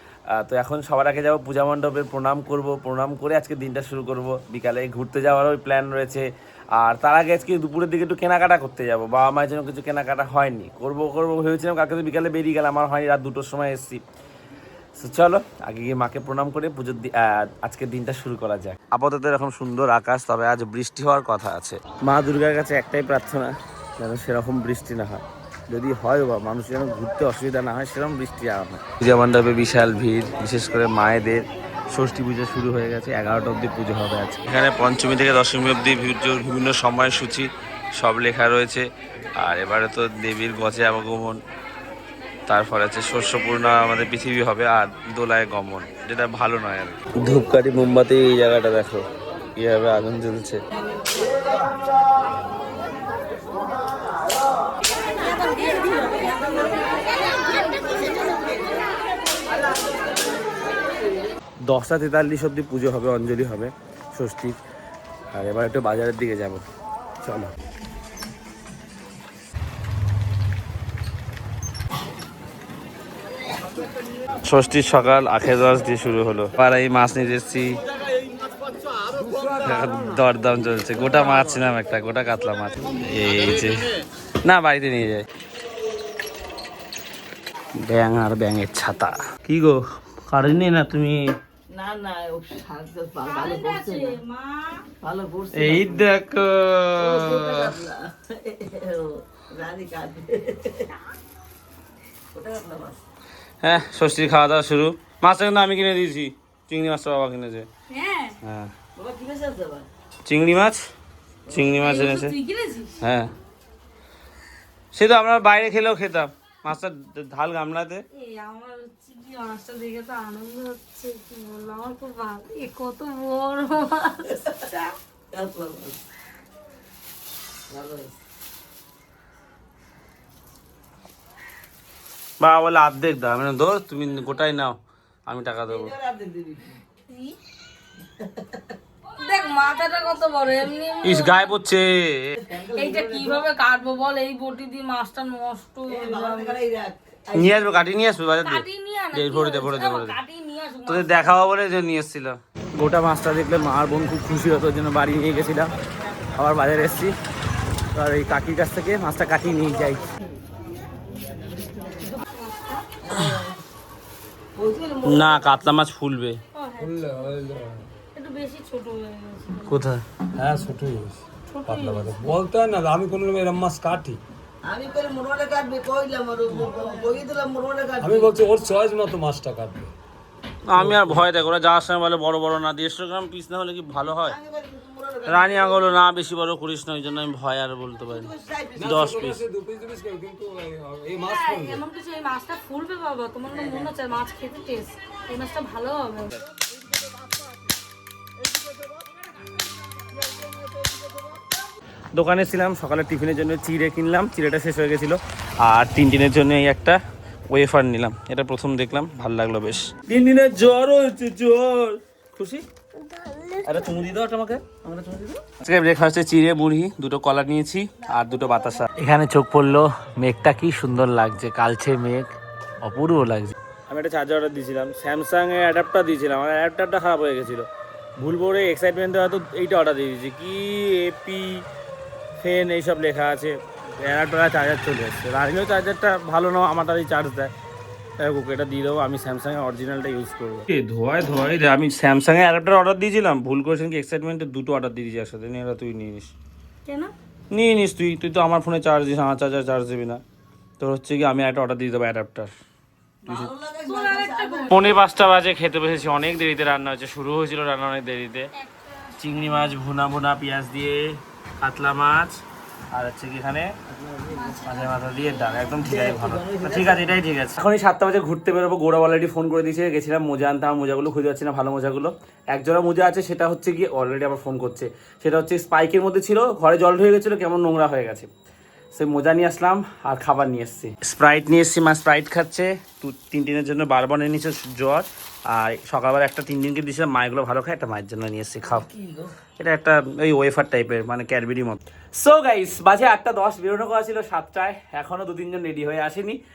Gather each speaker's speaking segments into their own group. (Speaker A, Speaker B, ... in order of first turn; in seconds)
Speaker A: 0.3-14.0, 14.9-41.4, 42.5-50.6, 61.6-64.6, 65.3-66.6, 67.2-67.5, 74.4-77.8, 79.3-83.9, 84.4-85.2, 87.8-91.2, 95.5-97.8, 103.6-107.7, 108.4-108.7, 110.2-110.8, 111.5-112.3, 113.0-113.3, 114.9-118.0, 132.4-135.9, 141.0-142.4, 147.3-150.2, 150.8-155.7, 156.3-157.1, 157.9-160.0, 165.0-166.4, 169.7-170.0, 180.7-184.4, 185.2-189.4, 202.1-212.6, 213.6-227.7, 228.2-231.6, 232.4-237.5, 238.2-246.3, 247.5-250.2, 250.8-252.5, 253.2-253.5, 254.7-258.5, 259.1-262.4, 262.9-263.7, 264.6-278.3, 278.9-288.9, 289.6-296.4
Speaker B: 55.4-56.3, 93.2-94.8, 107.9-108.4, 111.8-112.9, 118.1-124.5, 137.1-137.4, 139.2-141.5, 142.6-146.6, 148.4-151.2, 162.1-162.8, 166.5-167.3, 168.1-169.7, 171.5-172.3, 191.3-196.4, 213.1-213.6, 246.8-247.1, 253.8-254.9, 258.7-259.1, 264.3-264.9
Speaker C: 91.7-94.2, 95.0-96.1, 97.0-101.0, 102.3-103.0, 109.0-109.9, 124.5-126.0, 127.7-128.1, 135.7-136.8, 138.2-138.7, 142.4-143.5, 145.9-147.6, 163.0-163.6, 164.5-165.7, 174.6-178.3, 184.2-185.9, 188.2-189.0, 193.5-193.9, 253.2-254.8, 263.9-264.7, 265.8-267.1, 288.8-289.3
Speaker D: 166.8-167.9, 170.3-174.2, 178.0-179.9, 180.8-181.2, 188.8-191.8